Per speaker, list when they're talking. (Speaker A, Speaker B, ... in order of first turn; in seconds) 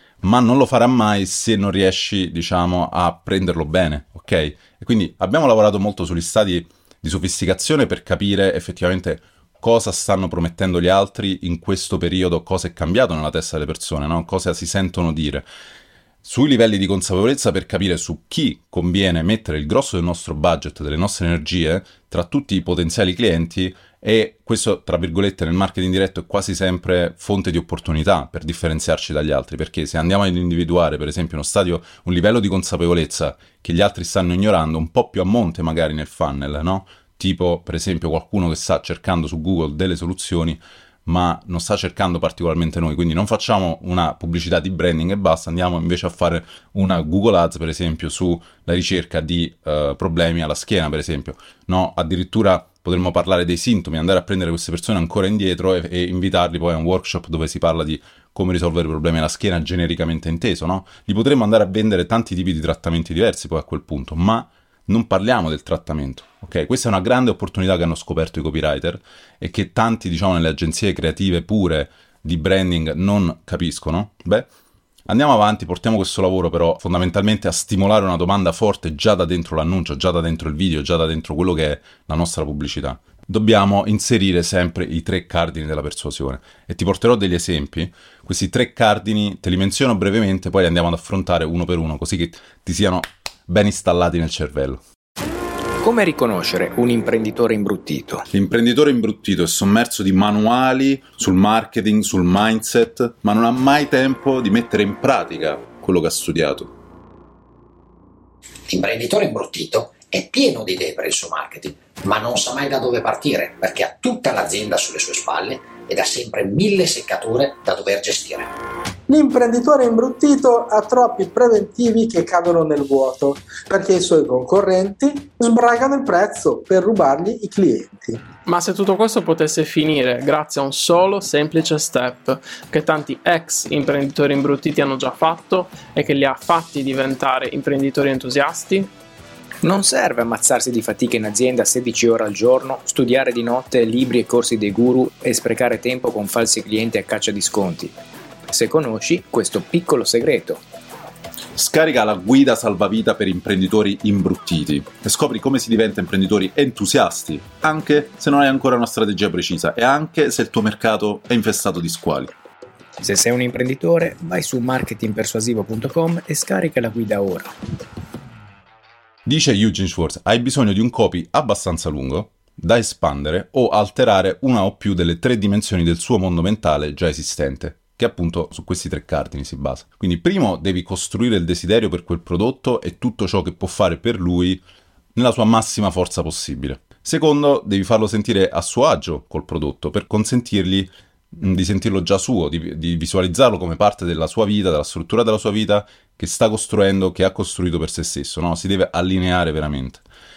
Speaker A: 0.2-15.4, 16.2-74.5, 75.1-94.8, 98.3-106.7, 151.6-162.3, 169.2-184.6, 185.1-200.0
Speaker B: 95.8-98.2, 139.6-147.9, 148.5-150.6, 163.0-167.5
Speaker C: 108.7-118.5
Speaker D: 119.1-128.2
Speaker E: 128.4-138.9